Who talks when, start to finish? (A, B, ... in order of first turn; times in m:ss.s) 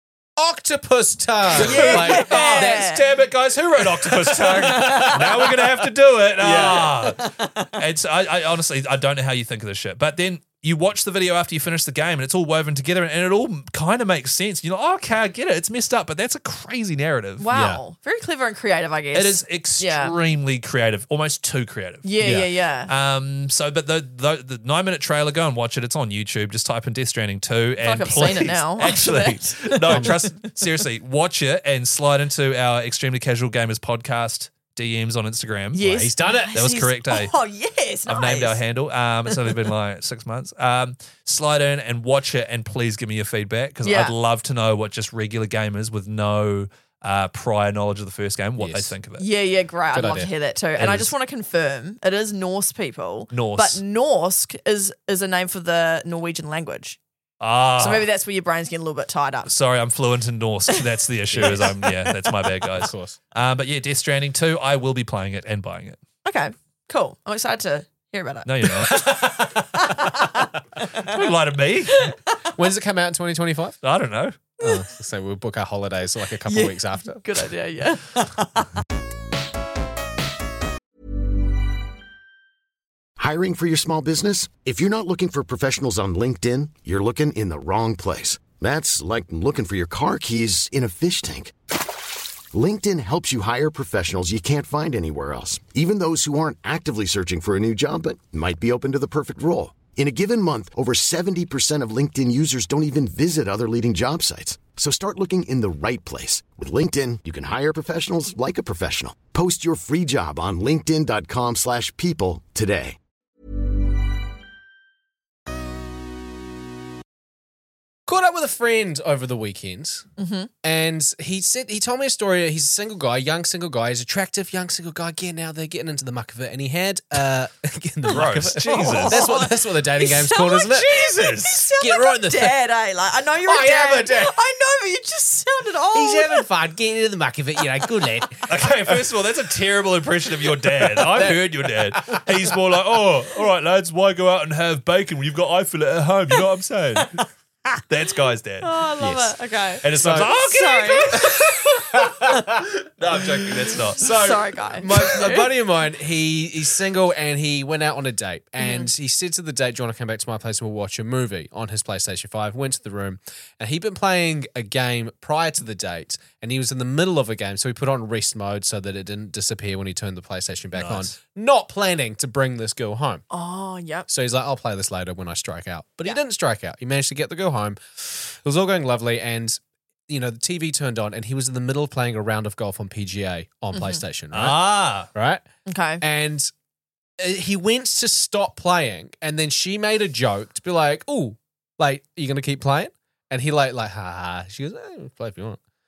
0:00.4-0:05.7 A
0:01.5-0:17.5 B
0:01.6-0:03.0 C
0:04.7-0:05.2 C
0:06.4-0:07.2 A
0:17.4-0:20.1 C
0:17.5-0:17.8 A
0:19.1-0:22.1 B
0:22.0-0:22.9 C
0:22.2-0:22.5 A
0:22.9-0:37.3 B
0:27.8-0:30.2 C
0:29.9-0:30.1 A
0:35.7-0:38.6 C
0:35.9-0:36.5 A
0:38.1-0:49.2 B
0:39.3-0:39.7 C
0:43.8-0:44.1 C
0:48.6-0:48.9 A
0:49.2-0:57.0 C
0:49.9-0:50.3 A
0:50.8-0:51.1 B
0:53.3-0:53.8 B
0:57.4-0:58.1 B
0:57.8-0:59.5 C
0:59.5-1:06.0 B
1:01.3-1:01.7 A
1:02.7-1:03.2 A
1:06.2-1:11.0 C
1:08.4-1:09.9 B
1:11.0-1:12.2 B
1:11.9-1:12.5 C
1:12.5-1:13.8 A
1:13.8-1:14.4 B
1:14.6-1:17.2 A
1:16.4-1:18.7 C
1:23.2-1:31.5 D
1:32.5-1:53.0 D
1:58.1-2:00.0 A
2:00.2-2:00.5 C
2:00.6-2:11.0 A
2:08.1-2:09.3 B
2:08.6-2:16.4 C
2:10.7-2:11.6 B
2:11.8-2:12.6 A
2:13.4-2:14.4 A
2:15.9-2:18.5 A
2:18.5-2:27.2 B
2:20.9-2:22.2 A
2:27.8-2:28.8 B
2:28.6-2:31.5 C
2:29.0-2:29.3 A
2:29.8-2:32.4 B
2:29.9-2:30.3 A
2:31.9-2:32.6 A
2:33.0-2:34.1 B
2:33.9-2:53.2 A
2:34.0-2:35.5 C
2:38.6-2:38.9 C
2:50.8-2:51.1 B
2:53.3-2:54.1 C
2:54.1-3:05.4 A
3:03.7-3:04.0 C
3:04.3-3:05.1 B
3:05.7-3:06.0 C
3:06.0-3:06.5 A
3:07.2-3:15.6 A